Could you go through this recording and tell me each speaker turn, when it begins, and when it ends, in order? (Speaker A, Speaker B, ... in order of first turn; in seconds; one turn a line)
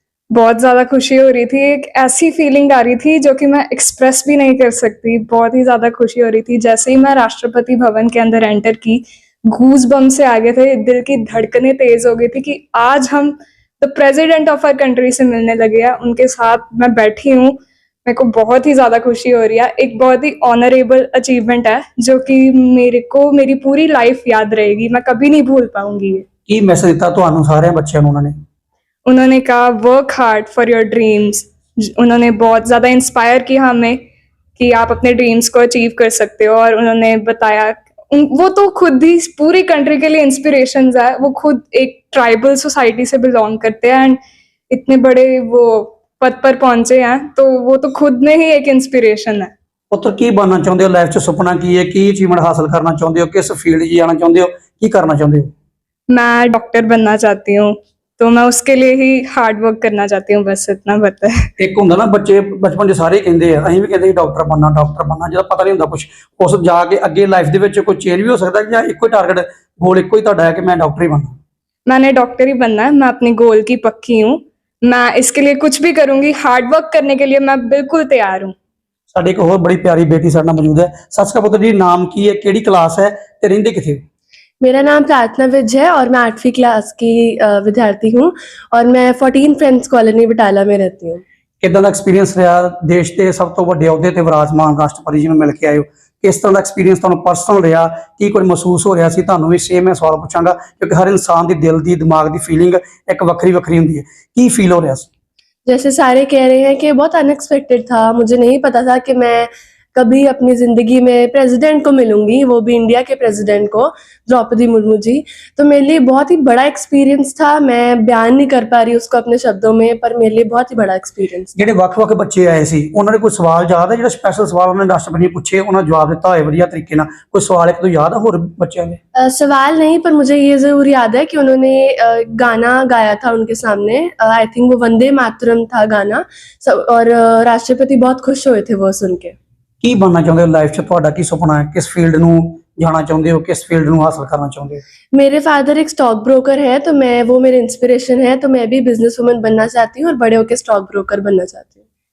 Speaker A: 0.3-26.2
Speaker B: 26.5-28.4
Speaker A: 29.1-34.0
Speaker A: 34.6-44.2
Speaker A: 44.7-49.5
Speaker B: 49.9-55.5
Speaker A: 56.1-61.5
Speaker B: 61.6-71.4
Speaker A: 71.9-78.5
Speaker B: 79.1-84.0
Speaker C: 84.6-91.2
Speaker B: 91.6-105.1
Speaker C: 105.7-121.5
Speaker B: 121.5-129.0
Speaker C: 129.2-139.3
Speaker B: 139.8-144.8
Speaker C: 145.1-151.7